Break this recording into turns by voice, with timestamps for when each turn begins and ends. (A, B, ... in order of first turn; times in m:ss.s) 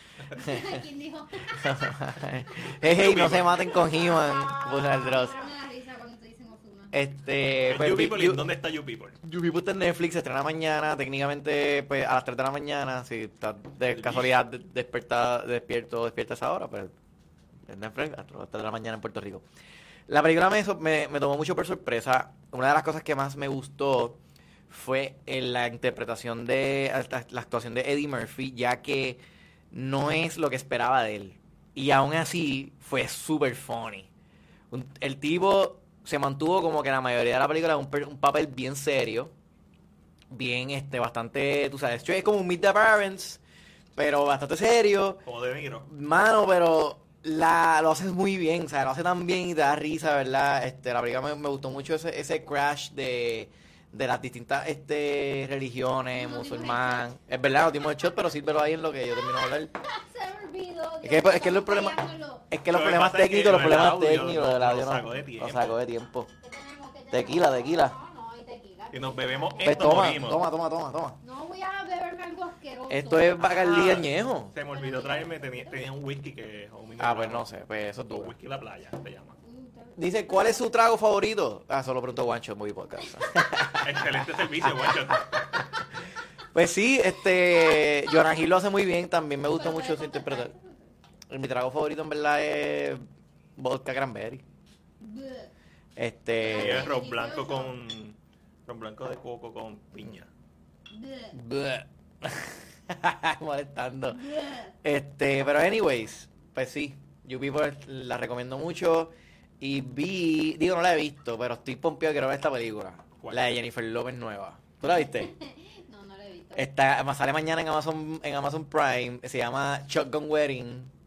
0:00.3-0:00.8 A
0:00.3-0:02.0 B
0:01.5-0:05.4 A
0:02.6-0:03.8 C
0:03.7-0:07.0 B
0:06.9-0:08.5 A
0:07.6-0:09.2 C
0:09.2-0:16.9 A
0:13.9-0:14.3 C
0:17.7-0:19.4 A
0:20.1-0:24.2 A
0:24.7-0:29.2 A
0:29.7-0:34.1 A
0:34.7-0:39.3 A
0:40.3-0:43.4 A
0:44.0-0:45.2 A
0:45.3-0:45.9 C
0:45.8-0:59.7 A
0:56.2-0:57.1 B
0:59.2-1:02.5 B
1:01.0-1:06.3 A
1:02.7-1:05.8 C
1:06.4-1:10.1 B
1:07.1-1:08.0 A
1:08.9-1:10.4 C
1:09.6-1:11.2 A
1:11.2-1:13.6 B
1:12.9-1:14.6 A
1:13.4-1:17.4 C
1:14.7-1:15.8 B
1:17.0-1:18.4 A
1:18.1-1:19.4 C
1:19.4-1:20.6 B
1:20.0-1:25.6 A
1:23.1-1:23.7 B
1:23.8-1:25.6 C
1:26.5-1:30.5 A
1:29.5-1:30.8 B
1:31.3-1:33.0 A
1:33.6-1:34.4 A
1:35.0-1:35.5 B
1:36.0-1:36.9 A
1:36.4-1:40.3 C
1:36.4-1:37.7 B
1:40.9-1:41.4 B
1:41.3-1:44.3 A
1:44.1-1:44.7 B
1:44.8-1:55.3 A
1:53.2-1:53.6 C
1:54.9-1:56.7 B
1:56.6-2:00.9 A